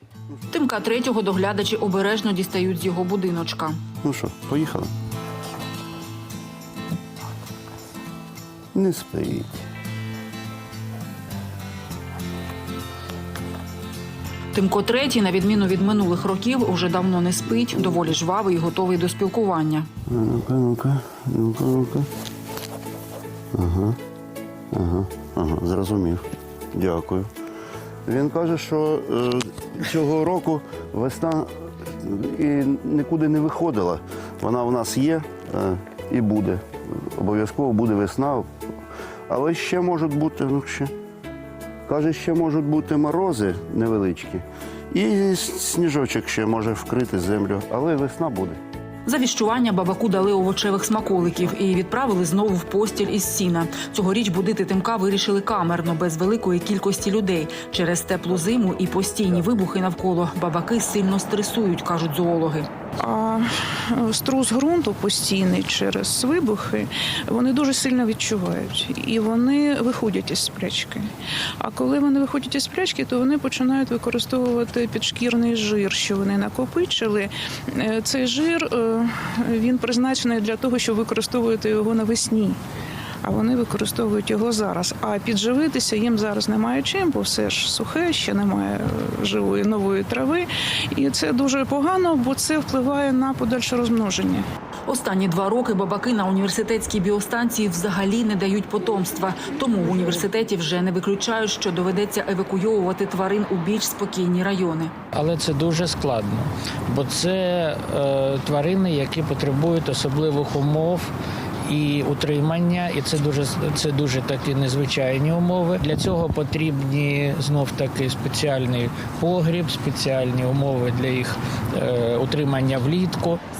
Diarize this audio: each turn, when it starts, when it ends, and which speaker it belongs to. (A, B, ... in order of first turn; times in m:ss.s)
0:00.5-0:03.8 A
0:04.0-0:04.9 B
0:08.7-0:09.5 B
0:14.5-0:19.9 A
0:20.1-0:22.1 B
0:23.5-0:24.0 B
0:24.7-0:27.3 B
0:28.0-0:38.5 B
0:39.3-0:40.9 B
0:41.9-0:48.6 B
0:49.1-1:02.7 A
1:03.0-1:22.6 C
1:23.2-1:34.4 C
1:34.9-1:44.9 A
1:45.1-1:51.1 D
1:51.6-2:03.4 D